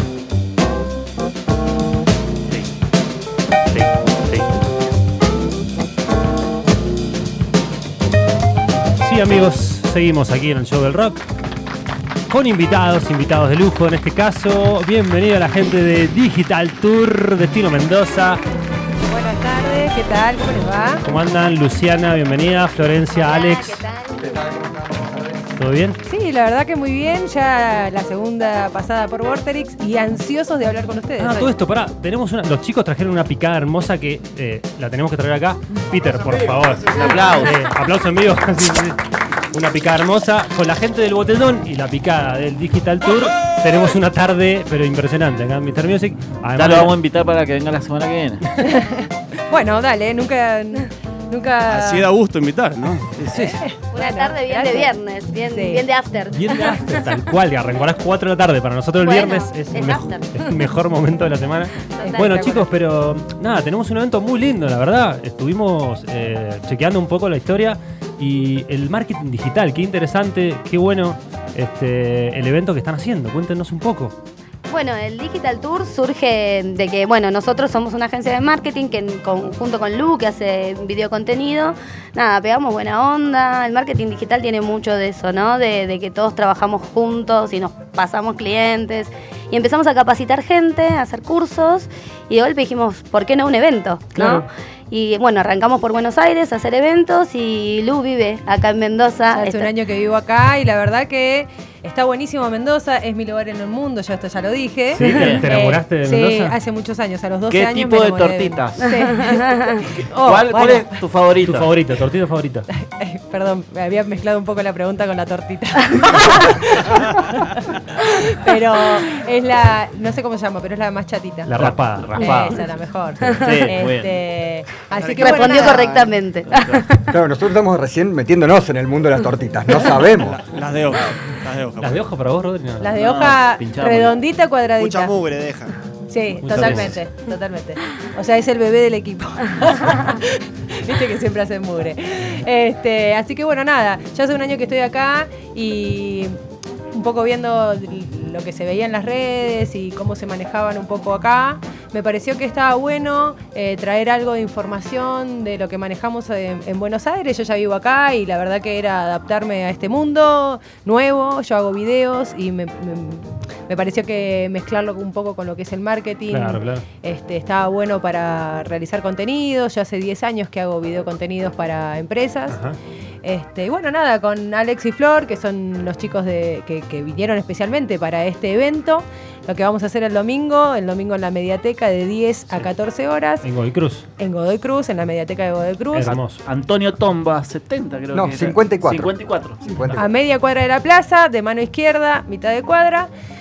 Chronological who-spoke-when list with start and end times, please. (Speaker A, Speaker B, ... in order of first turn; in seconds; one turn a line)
Speaker A: 3.7-4.5
Speaker A: 9.0-11.2
Speaker A: 12.3-18.4
Speaker B: 19.1-21.0
Speaker A: 21.0-23.8
Speaker C: 23.1-24.3
Speaker D: 24.2-25.5
Speaker A: 25.6-26.0
Speaker B: 26.1-31.5
Speaker A: 31.2-39.0
Speaker E: 36.9-37.6
Speaker A: 39.5-46.9
Speaker E: 46.6-48.4
Speaker B: 48.6-52.1
Speaker F: 51.7-53.1
Speaker E: 53.2-53.5
Speaker A: 53.3-53.6
Speaker B: 53.3-55.9
Speaker C: 53.9-56.9
Speaker A: 56.3-74.1
Speaker C: 59.0-60.5
Speaker C: 62.0-62.3
Speaker B: 62.0-62.7
Speaker C: 74.7-99.7
Speaker A: 94.2-94.4
Speaker B: 99.3-111.0
Speaker A: 105.0-106.6
Speaker E: 105.0-105.5
Speaker E: 107.5-109.0
Speaker E: 110.2-111.7
Speaker A: 111.4-112.7
Speaker B: 112.7-121.5
Speaker A: 121.5-122.6
Speaker B: 122.2-125.9
Speaker C: 122.2-122.5
Speaker E: 123.4-124.1
Speaker F: 125.0-126.1
Speaker C: 125.2-127.0
Speaker D: 127.1-130.4
Speaker F: 130.2-132.1
Speaker A: 131.8-132.9
Speaker B: 132.8-135.2
Speaker E: 132.9-134.2
Speaker F: 134.8-135.7
Speaker B: 136.1-146.4
Speaker A: 136.4-137.0
Speaker E: 136.5-136.9
Speaker B: 146.9-172.6
Speaker A: 166.3-166.8
Speaker A: 172.5-172.8
Speaker B: 173.2-183.5
Speaker A: 183.4-184.1
Speaker B: 184.2-186.2
Speaker A: 185.9-186.4
Speaker E: 186.1-189.9
Speaker D: 188.1-190.1
Speaker B: 189.9-193.1